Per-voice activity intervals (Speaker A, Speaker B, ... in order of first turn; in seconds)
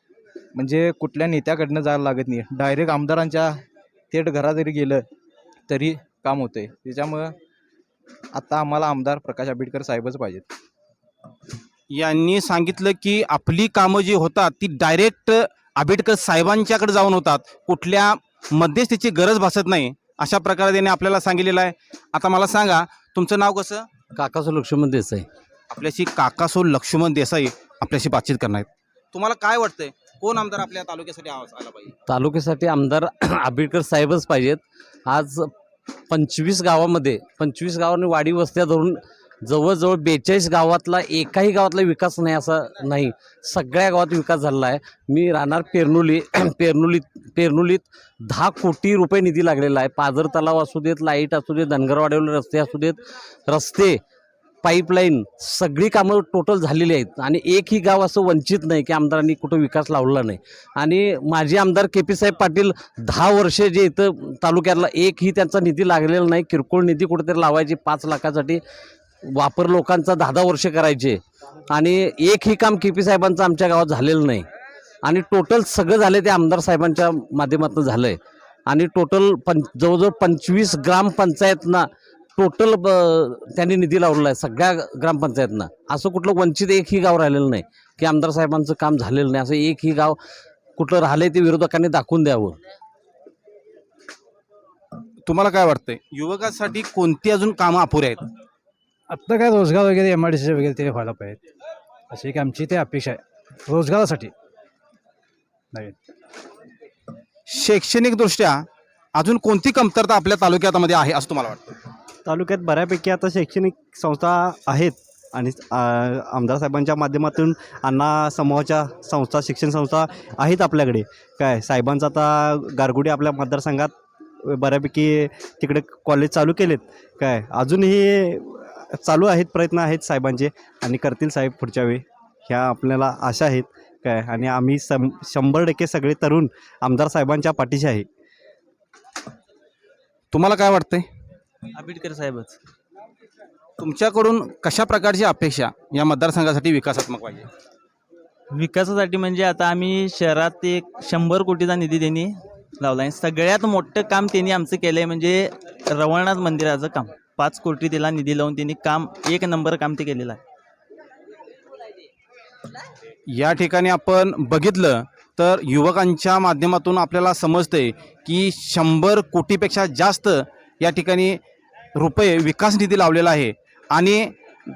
Speaker A: 0.5-5.1, 5.7-7.3, 8.3-10.5
Speaker B: 11.9-23.9, 25.7-31.9, 95.3-98.3, 107.5-108.7, 109.2-111.8, 140.3-141.1, 143.8-147.5, 163.3-171.4, 171.9-174.3
Speaker C: 24.1-25.3, 32.1-35.5, 36.1-54.0, 54.6-68.6, 69.2-74.5, 75.0-90.2, 90.8-92.6
Speaker D: 99.1-101.4, 102.1-104.3
Speaker E: 112.3-123.9, 124.5-138.0
Speaker F: 141.7-142.6, 148.5-160.4